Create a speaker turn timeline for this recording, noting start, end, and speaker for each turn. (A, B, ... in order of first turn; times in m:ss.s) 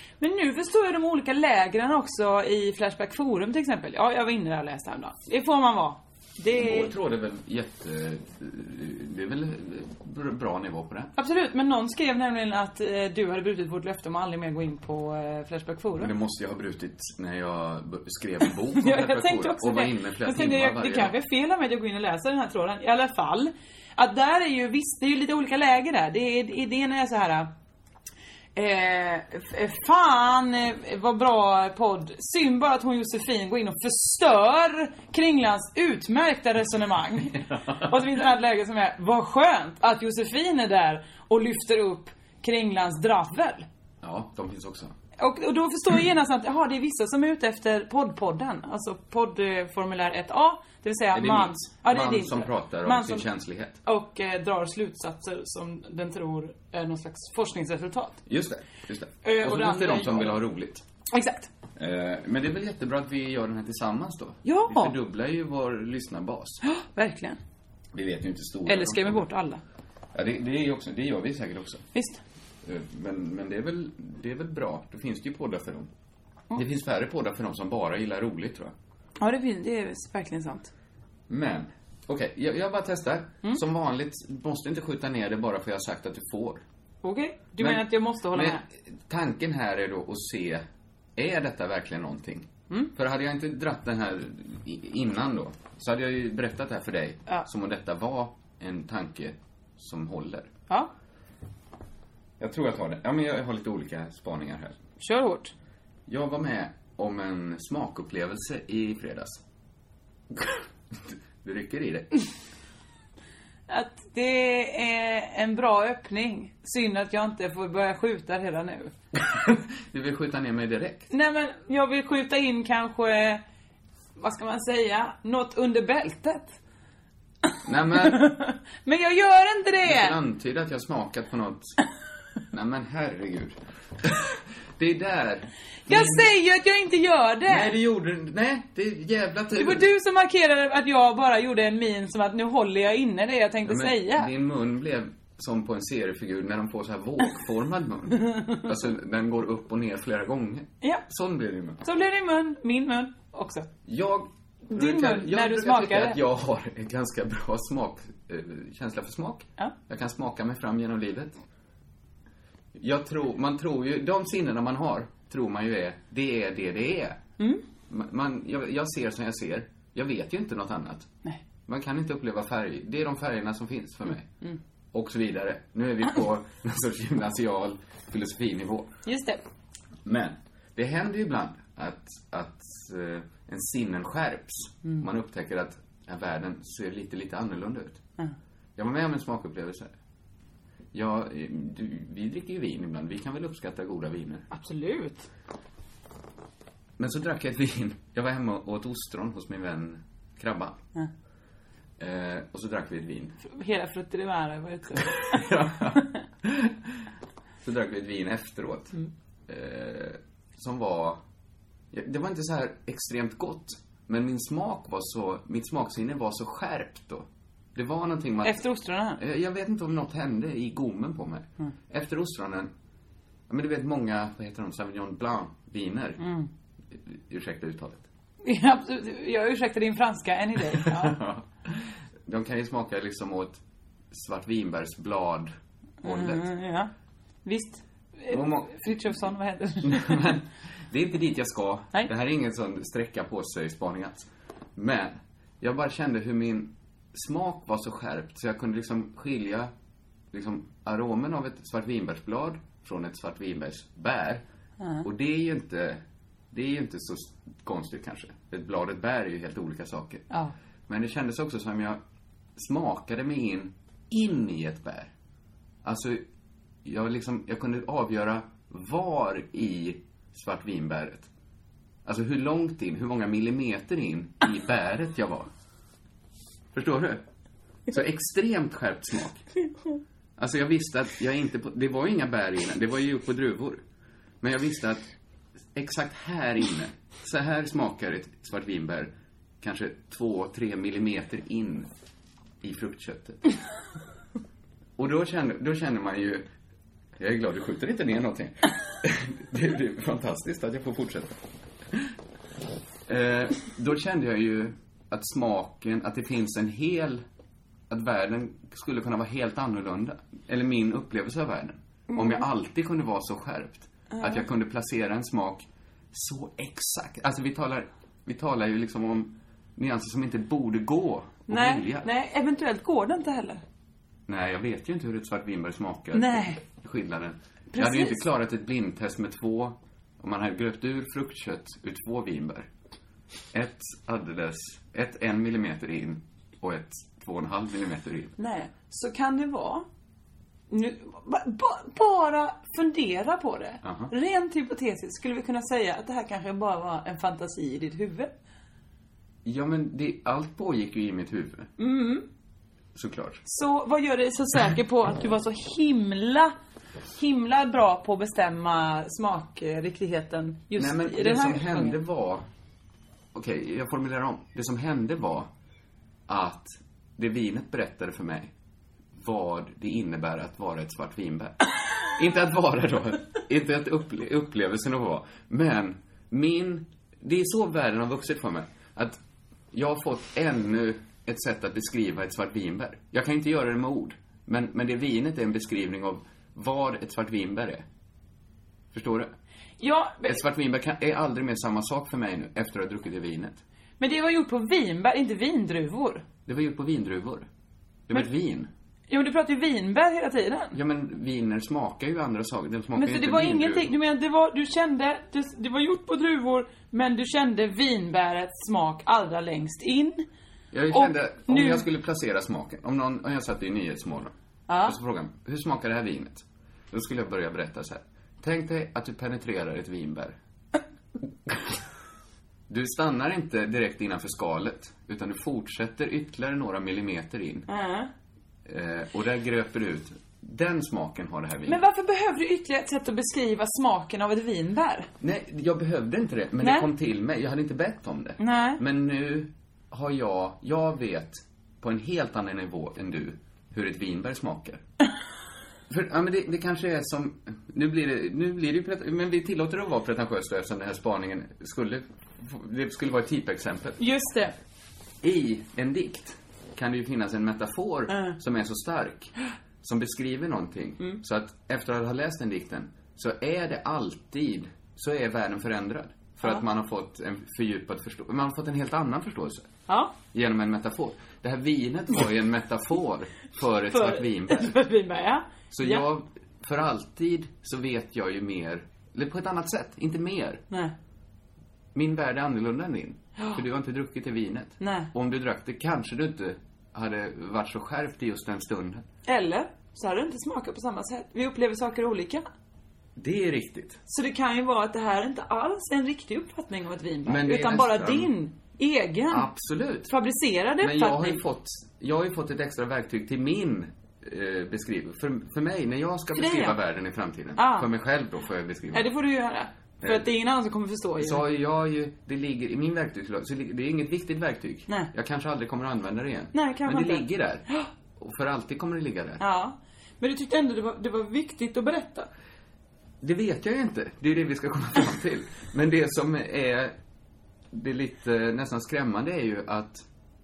0:00.2-0:06.9 A
0:06.5-0:11.1 B
0:11.2-0:16.1 A
0:16.0-0:21.1 B
0:18.8-0:27.5 A
0:28.6-0:43.6 A
0:37.5-0:37.8 B
0:44.0-0:44.9 B
0:45.2-0:53.3 A
0:51.1-0:53.8 B
0:53.8-0:58.2 A
0:58.3-1:00.8 B
0:59.2-1:00.4 A
1:01.1-1:01.5 A
1:01.8-1:06.6 B
1:04.4-1:04.9 A
1:06.6-1:07.4 A
1:07.9-1:09.2 B
1:08.6-1:09.6 A
1:10.1-1:11.9 B
1:11.9-1:12.2 A
1:12.6-1:15.9 B
1:16.5-1:18.7 B
1:19.2-1:20.7 A
1:21.3-1:26.6 B
1:27.0-1:28.6 A
1:27.6-1:30.6 B
1:31.2-1:40.5 B
1:42.4-1:44.8 B
1:45.0-1:45.5 A
1:46.1-1:49.4 B
1:50.3-1:52.1 B
1:53.7-1:58.9 A
1:59.2-2:01.1 B
2:01.1-2:03.4 A
2:04.2-2:06.5 A
2:07.6-2:08.3 B
2:08.0-2:10.2 A
2:09.8-2:11.7 B
2:12.5-2:16.3 B
2:15.9-2:17.8 A
2:17.5-2:19.9 B
2:19.6-2:24.3 A
2:23.6-2:31.8 B
2:28.3-2:28.6 A
2:31.8-2:33.7 A
2:33.8-2:41.4 B
2:34.7-2:36.2 A
2:42.7-2:47.2 B
2:47.9-2:51.1 B
2:51.7-2:54.3 B
2:54.9-2:58.9 B
2:59.0-2:59.4 A
3:00.0-3:08.0 B
3:08.8-3:09.9 B
3:10.9-3:14.4 B
3:14.5-3:15.3 A
3:17.0-3:20.8 B
3:22.0-3:23.4 B
3:23.4-3:25.4 A
3:25.0-3:26.8 B
3:27.6-3:29.0 B
3:29.5-3:31.2 B
3:31.9-3:38.6 B
3:38.4-3:39.2 A
3:39.2-3:42.7 B
3:43.5-3:46.2 B
3:46.2-3:46.5 A
3:46.9-3:48.0 B
3:48.4-3:51.2 A
3:50.7-3:56.5 B
3:56.0-3:56.9 A
3:57.4-4:00.3 A
3:58.3-3:58.9 B
3:59.8-4:09.7 B
4:10.3-4:14.4 B
4:14.8-4:15.0 A
4:15.0-4:20.3 B
4:20.9-4:22.0 B
4:22.6-4:25.1 B
4:25.8-4:26.2 B
4:26.8-4:31.3 B
4:32.0-4:35.5 B
4:36.7-4:37.2 B
4:37.9-4:39.4 B
4:40.4-4:43.8 B
4:44.4-4:45.0 B
4:45.7-4:51.9 B
4:52.6-4:53.4 B
4:55.0-4:56.5 B
4:57.2-5:01.4 B
5:03.1-5:07.2 B
5:07.9-5:22.1 B
5:12.1-5:12.4 A
5:14.1-5:14.4 A
5:21.5-5:23.6 A
5:24.3-5:32.7 B
5:26.1-5:26.6 A
5:27.7-5:28.2 A
5:33.5-5:38.4 B
5:38.4-5:39.8 A
5:40.7-5:48.3 A
5:43.8-5:44.1 B
5:49.4-5:51.7 B
5:51.8-5:52.3 A
5:52.9-5:53.4 B
5:53.4-5:56.5 A
5:57.1-6:02.0 A
6:00.7-6:02.4 B
6:03.3-6:05.5 B
6:06.3-6:08.5 B
6:09.2-6:19.2 B
6:19.7-6:27.8 B
6:28.9-6:29.3 B
6:29.8-6:30.4 A
6:30.2-6:33.6 B
6:34.0-6:36.2 A
6:36.4-6:37.5 B
6:38.1-6:38.7 B
6:39.1-6:40.8 A
6:40.7-6:43.9 B
6:42.9-6:50.2 A
6:50.7-6:54.3 B
6:50.9-6:51.8 A
6:54.7-6:55.0 A
6:54.8-7:00.4 B
7:01.5-7:01.8 B
7:02.7-7:07.7 B
7:07.7-7:08.1 A
7:08.6-7:11.8 B
7:11.6-7:15.1 A
7:15.2-7:24.8 B
7:16.6-7:16.9 A
7:18.4-7:18.8 A
7:25.9-7:34.0 B
7:34.0-7:34.5 A
7:35.2-7:49.7 B
7:38.1-7:38.4 A
7:49.9-7:50.1 A
7:50.3-7:54.7 B
7:53.9-7:56.0 A
7:55.7-8:00.6 B
8:01.9-8:09.0 B
8:04.8-8:05.1 A
8:09.2-8:12.4 A
8:13.2-8:14.0 B
8:14.1-8:19.5 A
8:17.2-8:18.3 B
8:19.3-8:20.1 B
8:20.1-8:21.4 A
8:20.8-8:29.1 B
8:26.3-8:26.8 A
8:27.6-8:27.9 A
8:28.9-8:31.4 A
8:31.2-8:37.6 B
8:36.5-8:37.9 A
8:38.2-8:39.4 B
8:39.4-8:42.3 A
8:43.2-8:47.0 B
8:47.7-8:50.0 B